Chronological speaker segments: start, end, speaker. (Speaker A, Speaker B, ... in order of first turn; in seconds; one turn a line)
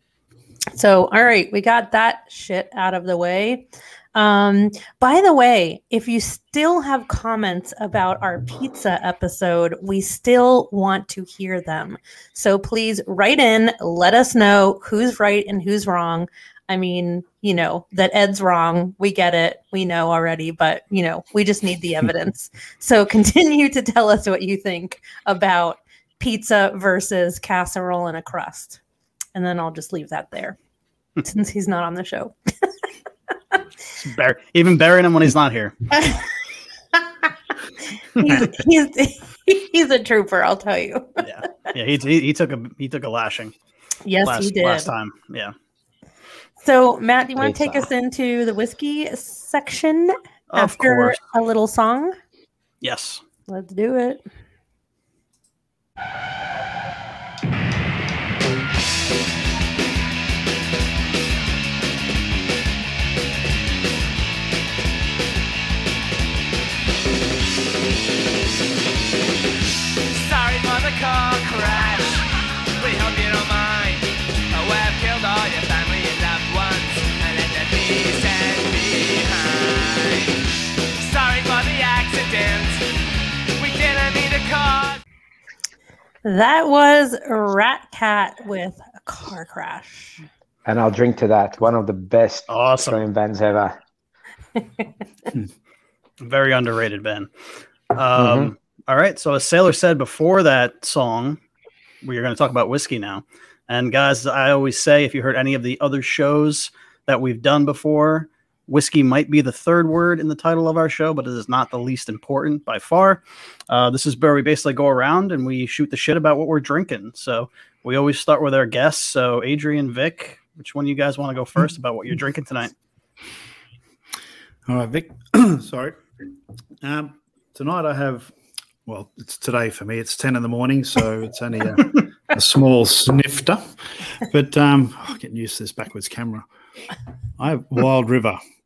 Speaker A: 0.7-28.8
Speaker A: 29.3-30.6
Speaker A: 31.2-32.6
Speaker B: 34.0-35.8
Speaker A: 38.1-41.1
Speaker B: 41.2-43.5
Speaker A: 44.0-44.9
Speaker B: 44.2-45.5
Speaker A: 46.6-52.1
Speaker C: 47.4-47.9
Speaker B: 50.5-51.2
Speaker B: 52.8-53.2
Speaker A: 53.5-54.2
Speaker D: 70.1-72.2
Speaker D: 72.8-80.4
Speaker D: 81.0-82.8
Speaker D: 83.5-85.0
Speaker A: 86.2-90.2
Speaker C: 90.7-93.8
Speaker B: 92.5-93.0
Speaker B: 96.2-97.3
Speaker B: 97.9-101.4
Speaker C: 98.2-98.5
Speaker B: 102.0-122.7
Speaker E: 124.7-126.0
Speaker E: 126.8-128.3
Speaker E: 128.8-136.4
Speaker E: 137.4-138.4